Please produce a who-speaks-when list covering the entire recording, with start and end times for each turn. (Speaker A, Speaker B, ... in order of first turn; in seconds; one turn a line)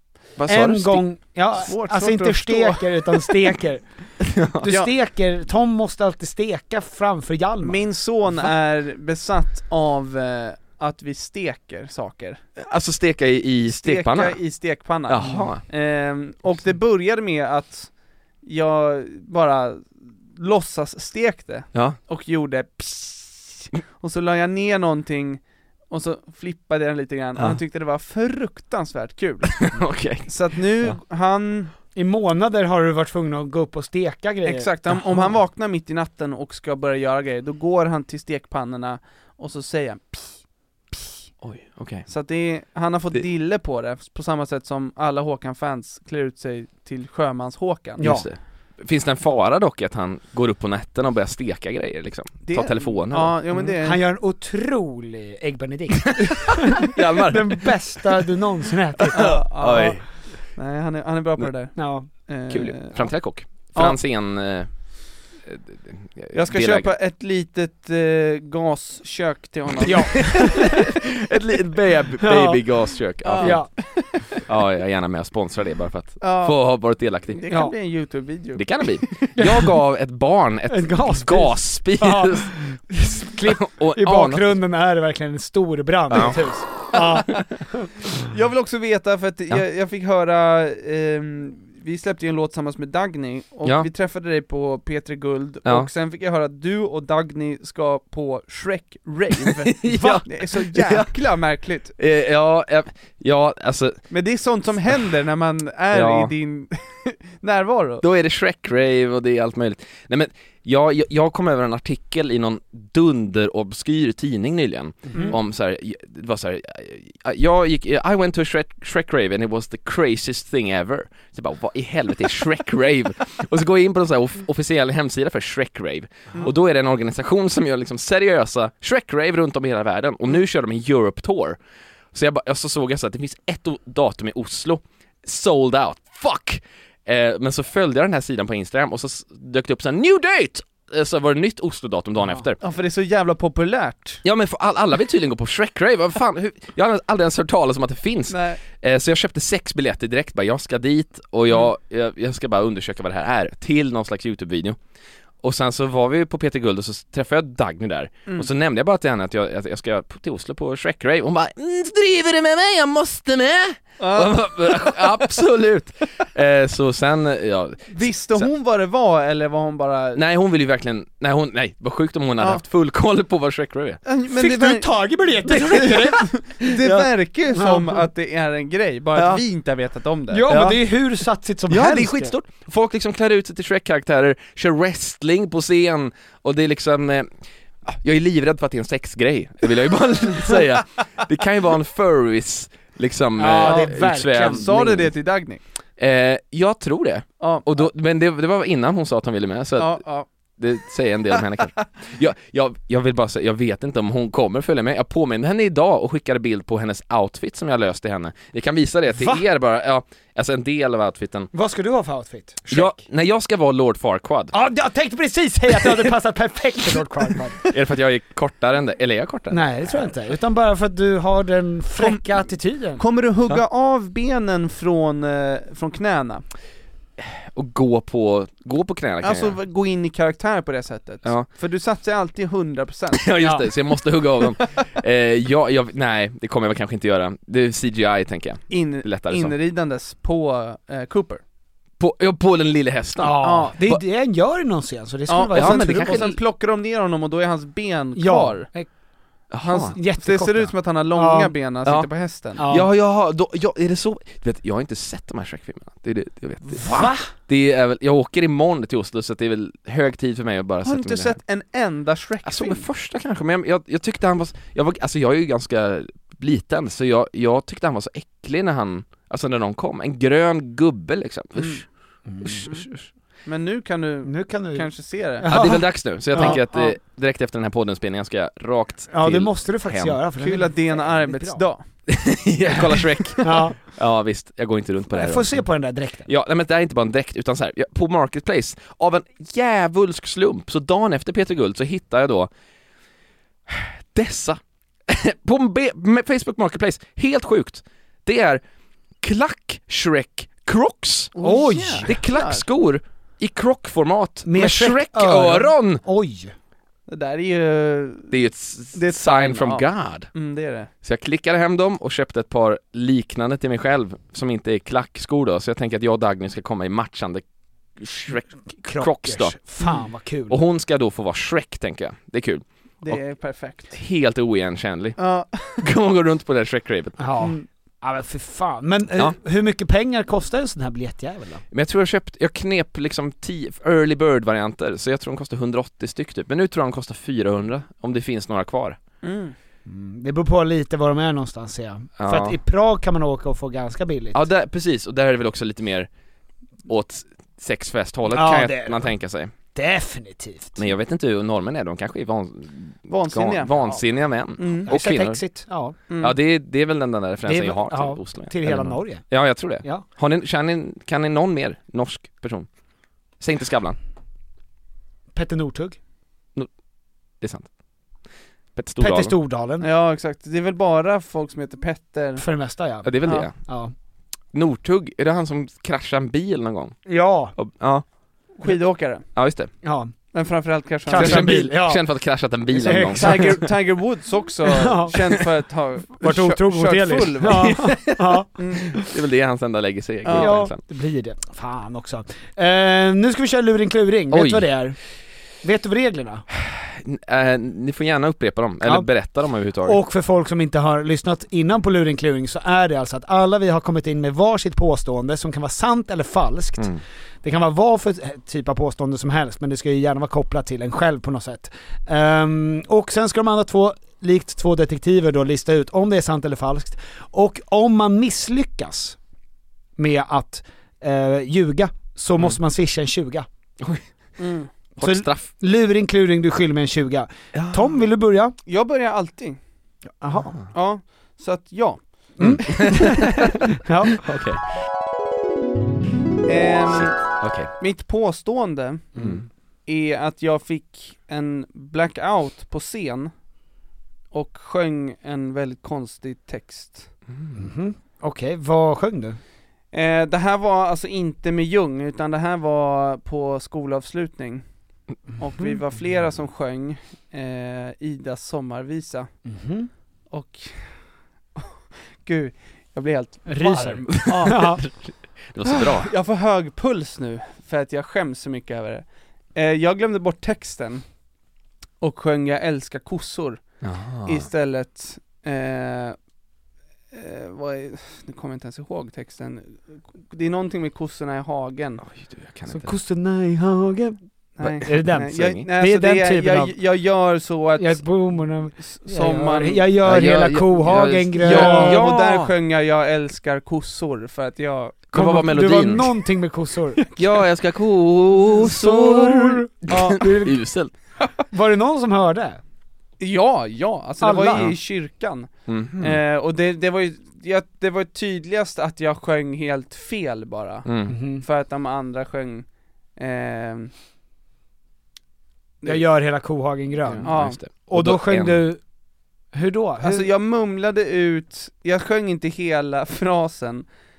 Speaker A: 0.4-1.1
Speaker B: 0.5-3.8
Speaker C: 1.6-3.3
Speaker A: 4.2-4.7
Speaker B: 4.6-7.8
Speaker C: 7.6-12.4
Speaker A: 12.6-15.6
Speaker C: 13.7-29.7
Speaker B: 15.2-15.5
Speaker A: 21.7-22.0
Speaker A: 29.6-30.9
Speaker C: 30.2-31.7
Speaker B: 31.9-35.4
Speaker C: 34.4-41.1
Speaker A: 41.4-42.1
Speaker C: 42.1-48.0
Speaker B: 48.0-48.3
Speaker A: 48.0-53.6
Speaker C: 52.4-54.0
Speaker B: 53.5-59.4
Speaker A: 56.8-58.0
Speaker A: 59.0-60.0
Speaker C: 59.1-63.1
Speaker B: 61.8-62.1
Speaker A: 62.5-64.7
Speaker A: 65.4-66.9
Speaker C: 66.3-70.5
Speaker B: 69.8-70.7
Speaker A: 69.8-73.7
Speaker B: 72.2-72.6
Speaker C: 73.2-74.2
Speaker B: 73.4-73.7
Speaker A: 74.4-77.4
Speaker C: 76.2-76.6
Speaker C: 77.3-79.3
Speaker B: 77.5-77.7
Speaker A: 78.5-82.6
Speaker B: 79.4-79.6
Speaker B: 80.7-87.9
Speaker A: 83.3-84.5
Speaker A: 86.1-86.4
Speaker C: 86.9-87.4
Speaker C: 88.2-101.9
Speaker A: 95.6-95.9
Speaker A: 99.7-101.1
Speaker B: 100.0-100.2
Speaker A: 101.9-104.1
Speaker C: 104.1-108.0
Speaker A: 105.9-106.3
Speaker A: 108.0-131.6
Speaker B: 115.1-115.3
Speaker C: 115.1-115.4
Speaker A: 132.1-142.6
Speaker C: 142.6-144.2
Speaker A: 144.2-154.8
Speaker C: 148.3-148.6
Speaker A: 155.4-168.5
Speaker C: 164.0-165.1
Speaker C: 167.9-170.2
Speaker A: 170.1-174.0
Speaker C: 172.4-172.6
Speaker C: 174.0-180.7
Speaker B: 174.3-178.1
Speaker B: 180.3-182.3
Speaker A: 180.5-180.8
Speaker A: 181.7-187.3
Speaker A: 187.8-195.1
Speaker B: 193.4-195.0
Speaker C: 193.6-195.6
Speaker A: 196.0-200.0
Speaker C: 197.4-197.7
Speaker C: 199.8-200.2
Speaker A: 200.6-211.5
Speaker B: 209.1-209.4
Speaker B: 211.5-213.0
Speaker A: 212.7-214.5
Speaker B: 214.5-217.6
Speaker A: 217.7-220.1
Speaker B: 219.5-223.0
Speaker C: 222.0-226.4
Speaker A: 227.2-229.6
Speaker C: 229.2-233.3
Speaker A: 231.2-231.5
Speaker A: 233.1-239.5
Speaker B: 233.4-233.6
Speaker C: 238.7-241.4
Speaker A: 242.0-244.0
Speaker B: 243.2-246.4
Speaker C: 243.4-243.8
Speaker C: 245.3-248.7
Speaker A: 245.5-246.4
Speaker B: 248.1-248.9
Speaker A: 249.5-249.9
Speaker C: 249.6-252.6
Speaker B: 249.8-251.5
Speaker A: 251.8-261.4
Speaker B: 252.6-252.9
Speaker B: 256.8-257.3
Speaker C: 260.8-262.9
Speaker A: 262.4-271.9
Speaker C: 271.6-271.8
Speaker B: 272.2-272.8
Speaker A: 272.4-273.0
Speaker C: 273.4-275.5
Speaker B: 274.2-276.9
Speaker A: 275.4-280.2
Speaker C: 276.3-276.6
Speaker B: 279.1-281.6
Speaker C: 280.4-281.9
Speaker A: 282.1-285.7
Speaker B: 283.4-283.8
Speaker B: 285.1-286.3
Speaker A: 286.2-292.5
Speaker A: 293.7-298.6
Speaker A: 299.2-301.3
Speaker C: 301.3-302.6
Speaker B: 301.4-302.2
Speaker A: 301.9-306.0
Speaker B: 304.4-306.5
Speaker C: 307.1-308.3
Speaker A: 308.3-310.4
Speaker C: 308.9-310.9
Speaker A: 311.0-317.4
Speaker A: 317.9-319.6
Speaker B: 318.8-320.6
Speaker A: 320.5-327.2
Speaker C: 323.0-323.9
Speaker C: 325.2-325.8
Speaker B: 327.2-331.6
Speaker A: 331.7-339.0
Speaker C: 339.2-339.5
Speaker B: 339.9-344.4
Speaker A: 342.2-342.6
Speaker A: 344.3-346.1
Speaker A: 346.9-349.5
Speaker B: 348.3-349.1
Speaker B: 349.7-350.8
Speaker A: 350.8-355.4
Speaker C: 353.1-353.9
Speaker C: 354.6-354.9
Speaker B: 354.8-356.0
Speaker C: 356.1-356.4
Speaker A: 356.2-362.7
Speaker B: 357.4-359.2
Speaker B: 359.8-360.0
Speaker A: 363.4-364.0
Speaker B: 365.3-366.0
Speaker A: 367.4-367.7
Speaker A: 368.7-369.3
Speaker B: 369.0-369.9
Speaker C: 369.8-372.4
Speaker B: 372.4-373.9
Speaker A: 373.0-373.5
Speaker C: 373.2-373.5
Speaker A: 374.5-378.0
Speaker B: 377.0-377.5
Speaker C: 378.5-379.3
Speaker A: 379.3-379.7
Speaker B: 379.8-380.1
Speaker C: 380.3-381.7
Speaker B: 381.1-382.1
Speaker A: 381.1-383.6
Speaker B: 382.7-383.7
Speaker C: 383.1-388.0
Speaker B: 384.6-385.2
Speaker B: 386.1-389.1
Speaker A: 387.5-390.8
Speaker C: 388.6-388.9
Speaker C: 390.2-390.7
Speaker B: 390.3-395.0
Speaker A: 394.3-394.7
Speaker B: 395.6-396.4
Speaker A: 396.6-400.0
Speaker B: 398.8-399.1
Speaker B: 399.8-419.2
Speaker B: 420.0-423.5
Speaker A: 423.8-424.0
Speaker C: 424.4-424.7
Speaker A: 425.0-425.5
Speaker B: 425.0-428.6
Speaker A: 427.5-427.9
Speaker C: 428.6-429.6
Speaker B: 430.2-430.6
Speaker C: 430.7-432.3
Speaker B: 432.4-434.2
Speaker A: 432.4-433.6
Speaker A: 434.2-434.7
Speaker C: 436.4-439.1
Speaker A: 436.9-437.7
Speaker B: 439.1-439.4
Speaker A: 439.2-439.4
Speaker C: 439.9-443.3
Speaker C: 444.3-447.1
Speaker A: 447.3-447.7
Speaker B: 447.5-449.4
Speaker C: 449.9-454.6
Speaker C: 455.4-459.3
Speaker B: 455.4-455.8
Speaker B: 459.4-459.9
Speaker C: 460.3-461.0
Speaker C: 462.2-464.8
Speaker B: 463.4-464.8
Speaker A: 464.1-466.1
Speaker C: 465.7-471.0
Speaker C: 472.0-476.1
Speaker A: 473.8-474.5
Speaker C: 477.1-482.0
Speaker A: 482.0-483.0
Speaker B: 482.7-486.7
Speaker C: 484.6-489.9
Speaker A: 484.6-485.7
Speaker B: 487.8-492.1
Speaker A: 490.0-492.5
Speaker C: 491.3-495.1
Speaker A: 495.1-496.1
Speaker B: 495.1-497.0
Speaker A: 497.1-500.9
Speaker B: 498.4-500.6
Speaker C: 499.9-500.2
Speaker B: 501.5-502.6
Speaker C: 503.2-513.9
Speaker B: 504.2-504.8
Speaker A: 505.7-506.2
Speaker A: 510.8-511.1
Speaker B: 511.1-511.4
Speaker B: 515.8-518.8
Speaker A: 517.1-518.6
Speaker C: 517.1-517.6
Speaker B: 519.5-520.3
Speaker C: 520.0-523.9